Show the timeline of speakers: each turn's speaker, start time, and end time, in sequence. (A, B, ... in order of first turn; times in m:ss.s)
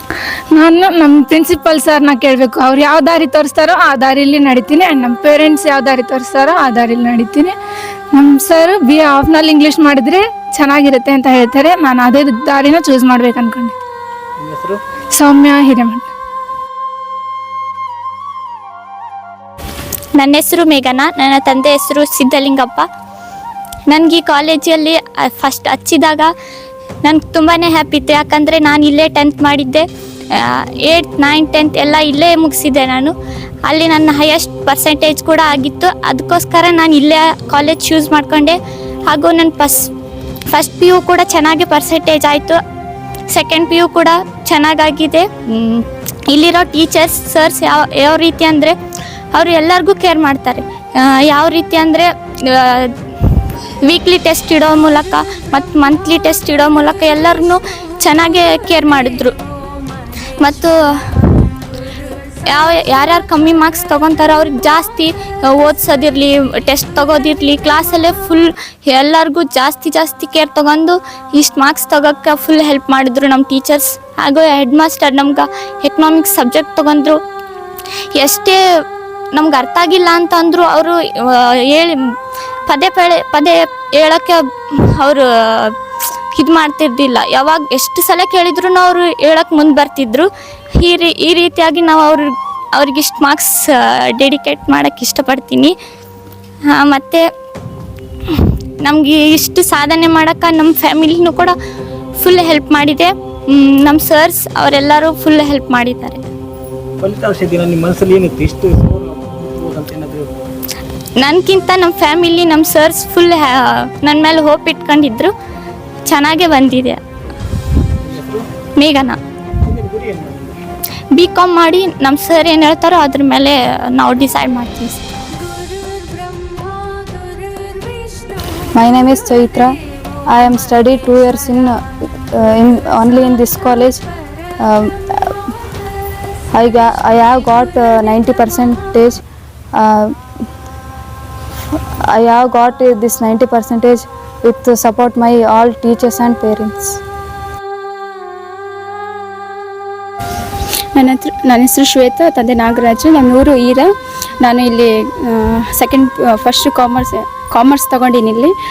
0:00.5-0:07.6 A
0:08.1-0:13.8 A
0:14.4-0:14.8 B
0:15.1-0:16.1 A
0:20.2-0:22.9 C
0:23.9-0:26.3 C
0:27.0-0:33.1 C
0:33.7-0:38.6 C
0:39.1-0:39.9 C
0:40.5-0:42.6 C
0:43.3-0:48.7 C
0:49.3-0:52.9 C
0:53.8-0:59.3 C
1:00.4-1:00.7 C
1:02.5-1:17.2 C
1:18.2-1:18.6 C
1:19.3-1:21.9 C
1:22.7-1:24.4 C
1:25.0-1:25.7 C
1:26.3-1:30.3 C
1:30.8-1:35.7 C
1:36.7-1:37.2 C
1:38.8-1:41.5 C
1:42.2-1:46.2 C
1:47.0-1:50.3 B
1:51.2-1:55.3 C
1:56.1-1:57.0 C
1:58.0-1:58.5 B
1:58.8-1:59.2 C
1:59.6-2:00.6 B
2:01.2-2:05.0 C
2:09.0-2:09.6 D
2:10.7-2:11.4 D
2:13.5-2:14.0 D
2:17.3-2:17.6 E
2:18.1-2:18.5 D
2:22.2-2:24.0 D
2:25.0-2:25.5 D
2:26.2-2:26.9 D
2:31.0-2:33.9 E
2:34.4-2:38.5 E